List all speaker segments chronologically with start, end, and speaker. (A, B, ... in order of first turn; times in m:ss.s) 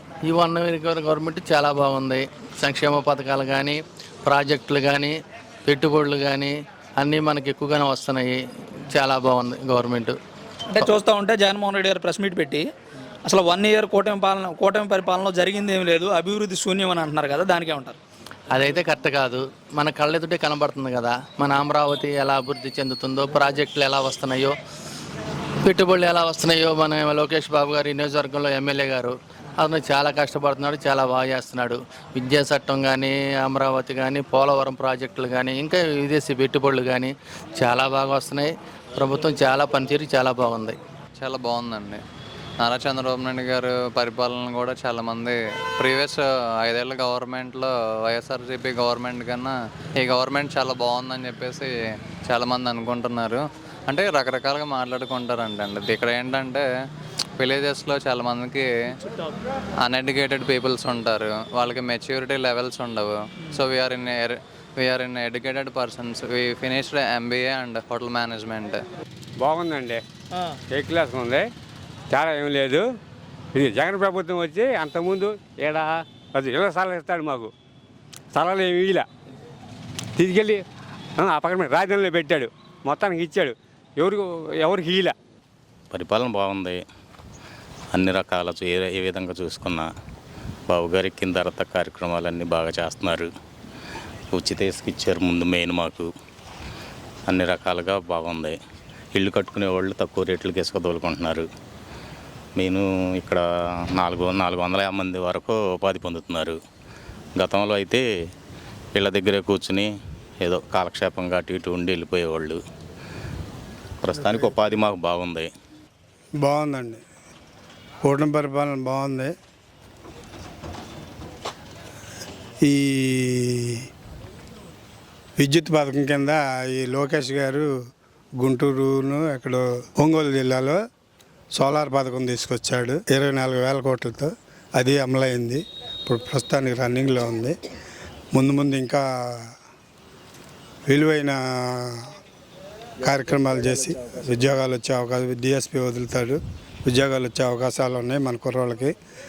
0:00.2-0:05.1 A
0:05.6-0:08.4 A
0:08.9-0:10.2 A
0:10.7-0:12.6 B
0:13.2-0:18.0 B
0:18.5-0:24.5 A
0:25.6-0:40.8 A
0:41.2-0:42.0 C
0:42.6-0:51.7 C
0:52.2-0:56.6 C
0:57.4-0:58.7 C
0:59.8-1:08.8 C
1:09.4-1:10.0 D
1:10.7-1:11.4 D
1:12.1-1:12.8 D
1:13.5-1:17.5 D
1:18.3-1:19.0 D
1:20.2-1:20.6 D
1:21.2-1:25.1 D
1:25.9-1:26.8 E
1:27.9-1:29.9 E
1:30.7-1:33.3 E
1:34.3-1:36.1 E
1:37.3-1:38.6 E
1:39.1-1:41.5 E
1:42.6-1:43.4 E
1:43.9-1:46.6 E
1:47.4-1:48.0 E
1:48.9-1:52.6 E
1:54.0-1:55.5 E
1:56.4-1:57.0 F
1:58.0-1:59.3 F
2:02.6-2:03.8 F
2:05.4-2:07.7 F
2:08.4-2:10.8 F
2:11.6-2:17.5 F
2:18.3-2:19.4 F
2:20.9-2:22.0 F
2:23.0-2:28.9 F